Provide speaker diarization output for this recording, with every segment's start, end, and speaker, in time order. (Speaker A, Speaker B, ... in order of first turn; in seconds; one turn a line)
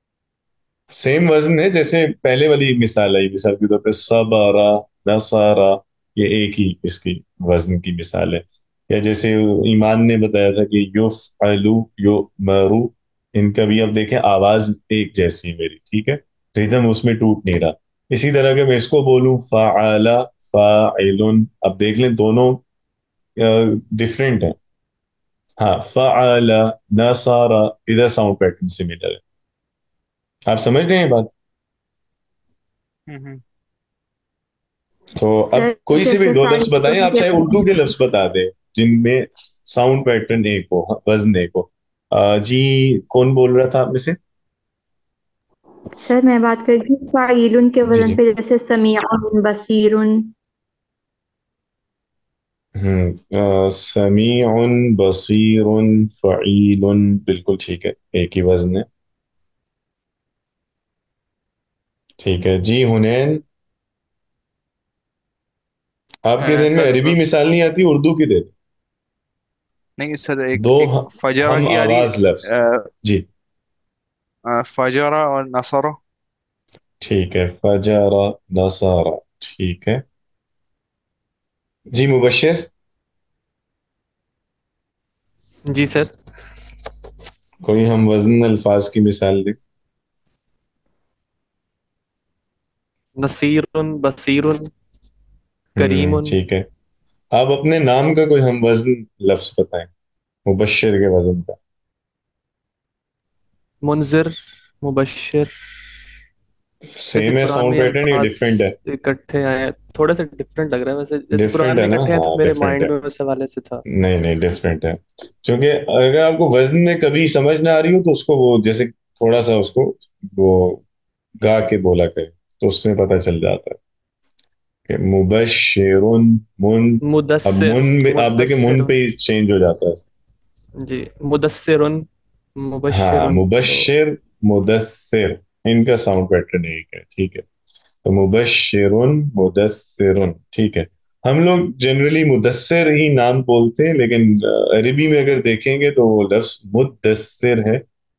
Speaker A: 0.9-22.6
Speaker A: 23.4-24.6
Speaker A: 25.6-29.2
Speaker A: 30.5-31.3
Speaker B: 33.1-33.4
Speaker A: 35.1-44.2
Speaker C: 35.4-37.6
Speaker C: 45.9-50.3
Speaker A: 47.9-48.2
Speaker A: 52.7-58.9
Speaker A: 62.2-63.4
Speaker A: 66.2-68.5
Speaker B: 66.4-67.2
Speaker B: 70.0-72.9
Speaker A: 70.5-73.2
Speaker B: 74.5-76.0
Speaker A: 77.0-80.0
Speaker A: 81.9-82.7
Speaker D: 85.7-86.1
Speaker A: 87.6-89.6
Speaker D: 93.2-94.7
Speaker A: 95.8-96.7
Speaker D: 95.8-96.4
Speaker A: 97.3-99.9
Speaker A: 100.5-101.6
Speaker D: 103.8-105.5
Speaker A: 106.9-108.7
Speaker D: 107.1-113.8
Speaker A: 111.3-112.9
Speaker A: 113.8-120.8
Speaker A: 121.4-123.8
Speaker A: 124.9-130.0
Speaker D: 127.0-128.9
Speaker D: 130.8-132.1
Speaker D: 132.6-133.9
Speaker A: 132.9-137.4
Speaker A: 138.0-147.8